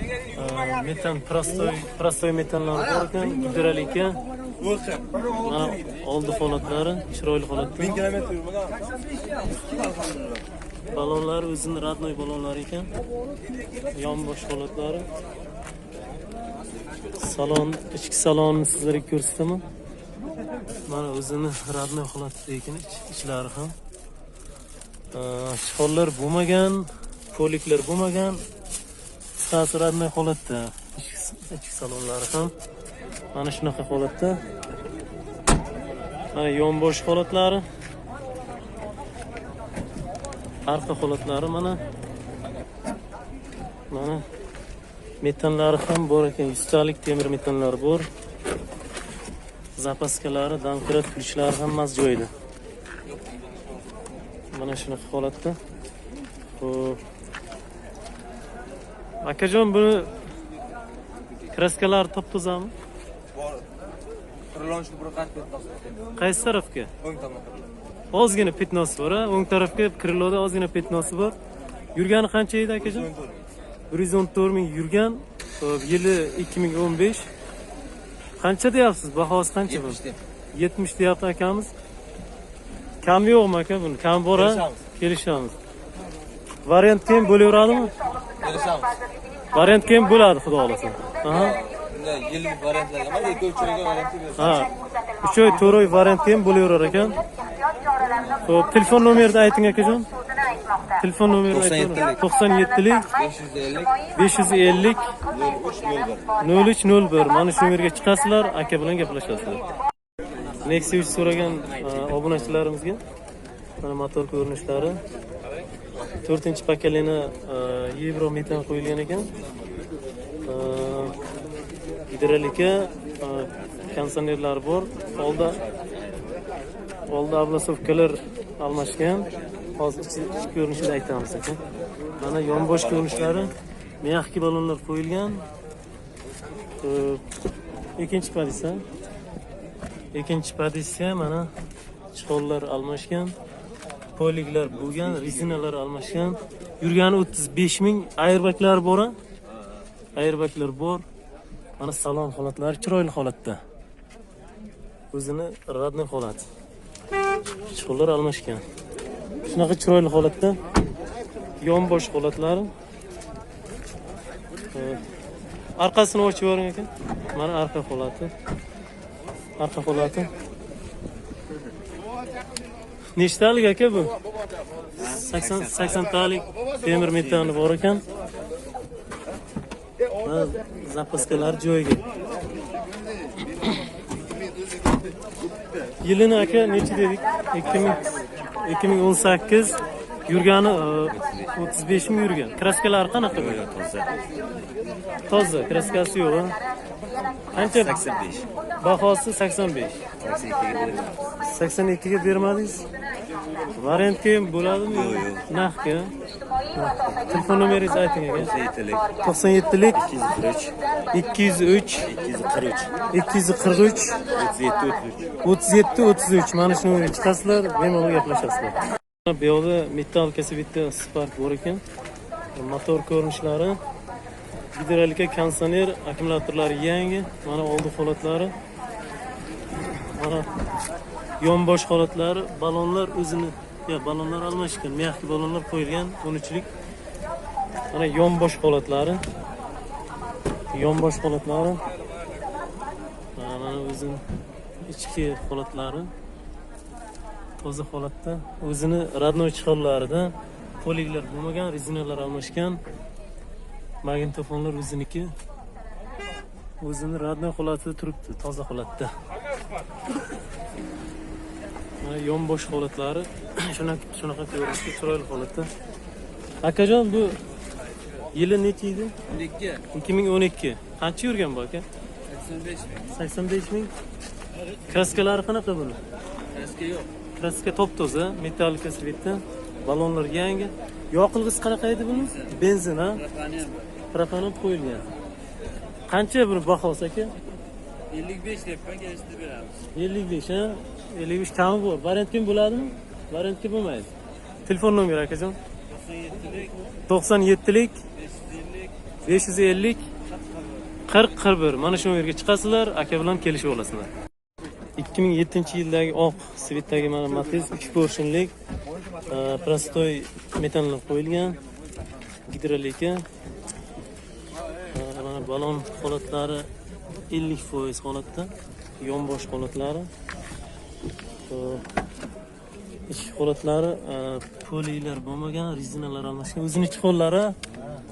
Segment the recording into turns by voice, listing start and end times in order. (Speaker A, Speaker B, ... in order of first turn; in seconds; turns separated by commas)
Speaker A: 0.3-4.2, Speaker A: 5.3-8.1, Speaker A: 10.9-12.9, Speaker A: 13.9-15.1, Speaker A: 17.2-19.6, Speaker A: 20.9-23.8, Speaker A: 25.1-28.4, Speaker A: 29.4-32.5, Speaker A: 33.3-34.4, Speaker A: 36.3-37.6, Speaker A: 40.7-41.8, Speaker A: 43.9-44.2, Speaker A: 45.2-48.1, Speaker A: 49.8-52.3, Speaker A: 54.5-55.6, Speaker A: 56.6-57.0, Speaker A: 59.2-60.1, Speaker A: 61.5-62.7, Speaker B: 64.5-66.0, Speaker A: 66.2-66.9, Speaker B: 67.1-67.6, Speaker A: 68.1-71.4, Speaker A: 72.0-73.1, Speaker A: 73.9-77.3, Speaker A: 78.4-81.7, Speaker A: 83.0-85.5, Speaker A: 86.7-87.9, Speaker B: 88.4-88.8, Speaker A: 89.5-91.6, Speaker B: 91.6-94.4, Speaker A: 94.4-97.2, Speaker A: 98.4-100.1, Speaker A: 101.0-103.1, Speaker B: 101.6-102.1, Speaker B: 103.2-103.9, Speaker A: 104.2-105.0, Speaker B: 105.5-106.1, Speaker A: 106.4-109.6, Speaker A: 110.6-113.0, Speaker A: 113.8-115.0, Speaker A: 116.2-119.3, Speaker A: 120.5-121.2, Speaker A: 122.1-125.6, Speaker A: 127.1-131.6, Speaker A: 132.2-135.5, Speaker A: 136.8-137.2, Speaker A: 138.0-138.8, Speaker A: 140.1-141.5, Speaker A: 142.1-143.3, Speaker A: 144.2-149.2, Speaker A: 150.2-151.1, Speaker A: 151.8-153.6, Speaker A: 155.1-156.4, Speaker A: 157.7-158.6, Speaker A: 159.4-160.6, Speaker A: 161.6-162.7, Speaker A: 164.7-165.0, Speaker A: 165.8-168.3, Speaker A: 169.6-170.3, Speaker A: 173.2-174.2, Speaker A: 175.0-178.0, Speaker A: 180.2-182.0, Speaker A: 186.0-193.7, Speaker C: 193.5-194.1, Speaker A: 195.3-196.6, Speaker A: 197.5-198.1, Speaker C: 197.8-198.5, Speaker A: 198.8-200.0, Speaker C: 200.2-201.2, Speaker A: 201.4-202.9, Speaker A: 203.8-206.1, Speaker A: 206.8-208.6, Speaker C: 208.5-209.1, Speaker A: 209.2-210.1, Speaker C: 210.0-210.8, Speaker A: 211.1-212.1, Speaker C: 212.1-212.9, Speaker A: 213.1-214.3, Speaker C: 214.4-215.2, Speaker A: 215.4-221.8, Speaker A: 222.6-223.8, Speaker A: 224.8-228.5, Speaker A: 230.1-230.5, Speaker A: 231.4-236.7, Speaker A: 237.9-239.2, Speaker A: 240.7-241.8, Speaker A: 243.4-244.2, Speaker A: 244.8-246.1, Speaker A: 247.6-252.8, Speaker A: 254.0-255.3, Speaker A: 256.8-259.1, Speaker A: 262.0-265.7, Speaker A: 266.6-267.4, Speaker A: 268.3-269.1, Speaker B: 269.3-269.8, Speaker A: 269.9-271.9, Speaker B: 272.3-273.0, Speaker A: 273.1-273.9, Speaker A: 274.9-276.0, Speaker B: 276.5-277.1, Speaker A: 277.4-283.2, Speaker B: 283.2-283.8, Speaker A: 284.1-285.1, Speaker A: 286.1-287.4, Speaker B: 288.1-289.8, Speaker A: 289.9-294.1, Speaker A: 294.7-295.6, Speaker B: 296.0-296.7, Speaker A: 297.1-298.0, Speaker B: 298.3-298.9, Speaker A: 299.2-300.0, Speaker A: 301.1-304.1, Speaker A: 305.0-308.5, Speaker A: 309.3-311.6, Speaker A: 312.5-313.2, Speaker A: 314.9-316.7, Speaker A: 317.3-320.1, Speaker A: 321.5-321.8, Speaker A: 323.1-327.6